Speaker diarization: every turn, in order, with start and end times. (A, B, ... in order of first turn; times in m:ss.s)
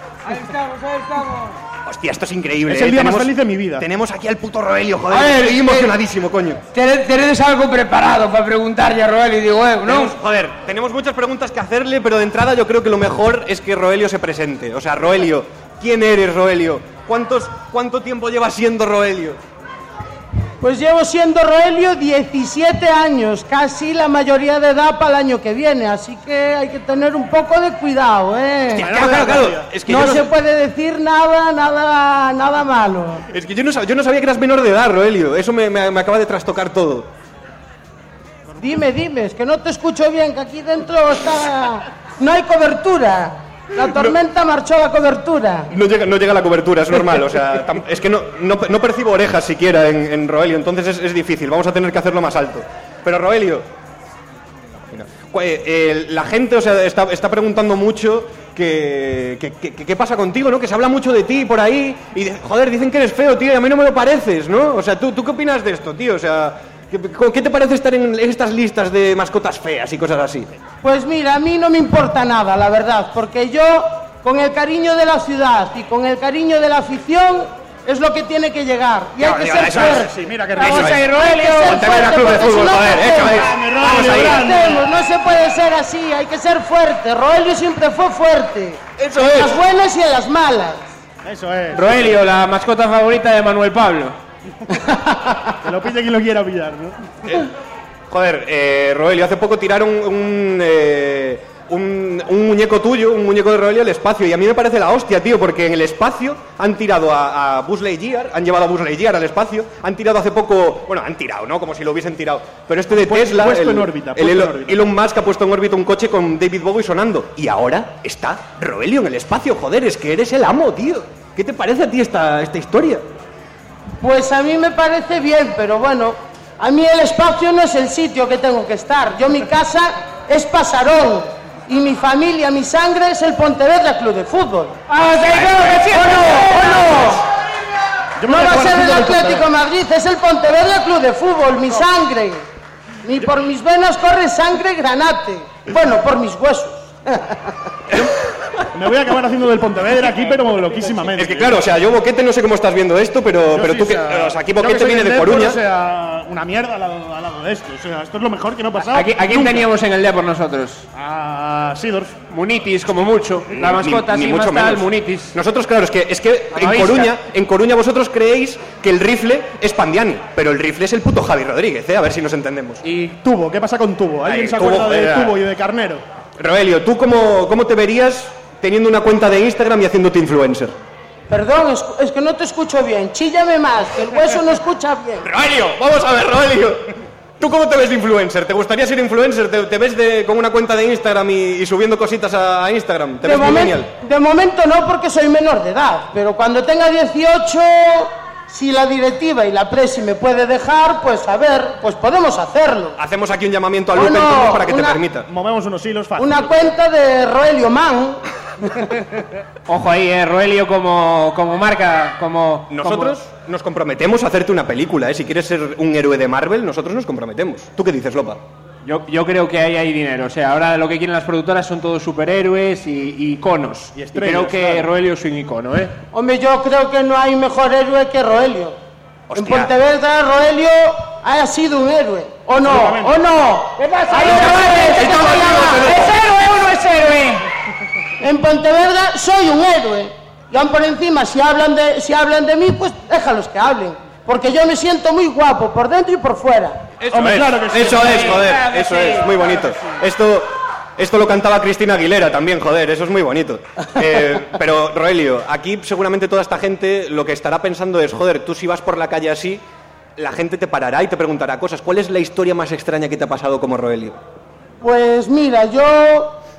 0:00.2-0:01.6 A
0:01.8-0:06.6 B
0:02.6-0:03.9 C
0:05.1-0:05.9 A
0:06.7-0:10.1 A
0:09.8-0:19.4 B
0:20.6-0:33.2 D
0:28.7-0:30.3 B
0:28.7-0:29.7 C
0:33.3-0:37.1 B
0:38.6-0:45.7 D
0:43.8-0:44.1 B
0:45.7-0:53.6 B
0:54.8-1:10.5 B
1:10.8-1:20.1 D
1:19.2-1:21.0 B
1:19.6-1:21.0 C
1:20.6-1:22.0 E
1:21.1-1:30.8 D
1:21.6-1:24.6 B
1:23.2-1:24.8 C
1:29.0-1:29.6 B
1:31.2-1:32.0 C
1:31.7-1:34.2 E
1:35.6-1:37.4 C
1:38.1-2:03.0 B
1:52.9-1:54.9 C
2:04.0-2:14.8 D
2:14.9-2:17.2 E
2:15.4-2:15.6 B
2:15.7-2:17.2 D
2:18.2-2:19.5 C
2:18.2-2:22.4 D
2:23.0-2:27.4 D
2:28.7-2:31.7 C
2:31.1-2:35.6 B
2:33.5-2:39.7 C
2:38.9-2:40.8 E
2:40.9-2:42.2 C
2:42.3-2:45.4 E
2:43.5-2:52.8 B
2:46.5-2:47.2 E
2:52.8-2:56.0 C
2:54.2-2:55.4 B
2:56.4-3:00.7 B
3:01.3-3:05.3 D
3:05.2-3:13.9 B
3:13.2-3:23.0 D
3:23.0-3:25.3 B
3:23.9-3:25.0 D
3:25.3-3:26.4 C
3:26.2-3:28.2 D
3:29.7-3:33.2 E
3:32.7-3:38.4 B
3:38.8-3:45.9 E
3:43.9-3:44.8 C
3:46.1-3:48.8 D
3:49.3-3:49.7 B
3:49.3-3:55.9 D
3:52.6-3:53.2 C
3:53.8-3:57.5 E
3:54.2-3:56.1 B
3:58.2-4:06.8 D
4:07.0-4:19.6 B
4:07.1-4:08.5 C
4:07.8-4:10.0 E
4:20.2-4:24.2 B
4:24.8-4:26.4 D